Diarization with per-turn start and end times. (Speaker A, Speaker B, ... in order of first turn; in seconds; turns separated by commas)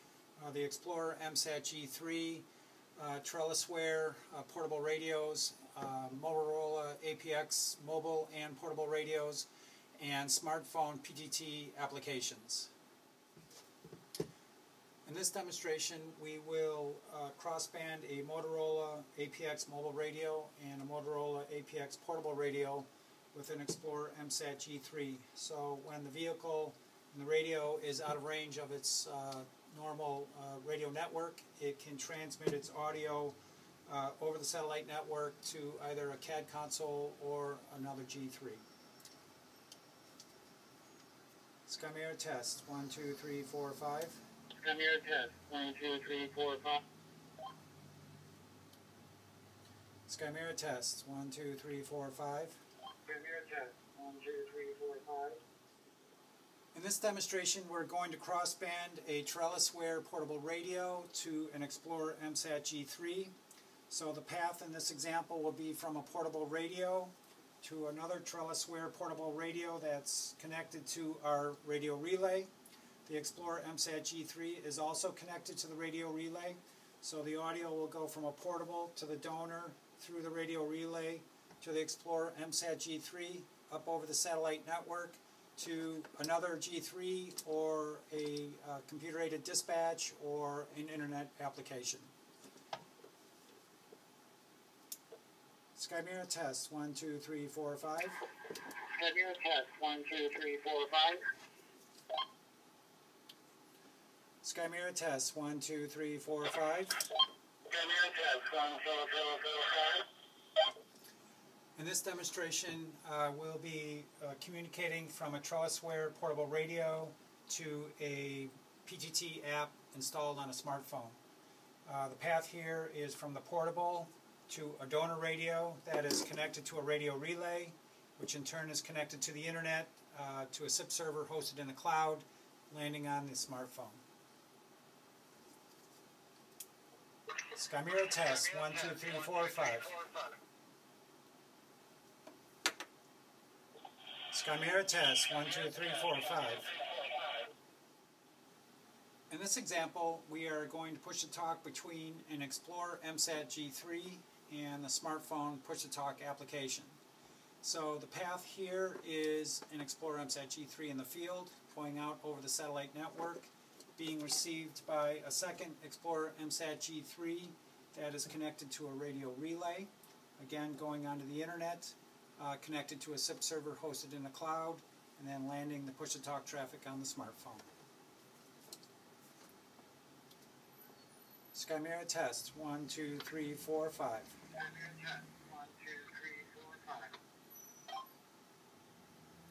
Speaker A: 0.4-2.4, Speaker A: 3.0-12.7, Speaker A: 15.0-33.3, Speaker A: 33.9-38.6, Speaker A: 41.6-44.2, Speaker B: 44.5-46.8, Speaker A: 50.1-52.6, Speaker B: 53.0-55.4, Speaker A: 56.7-63.3, Speaker A: 63.9-72.5, Speaker A: 73.0-92.1, Speaker A: 95.7-98.2, Speaker B: 98.9-101.2, Speaker A: 104.4-107.0, Speaker B: 107.7-110.0, Speaker A: 111.8-121.2, Speaker A: 121.8-134.0, Speaker A: 137.5-140.1, Speaker A: 144.3-146.8, Speaker A: 149.3-157.0, Speaker A: 157.6-177.7, Speaker A: 181.5-184.4, Speaker B: 184.5-187.2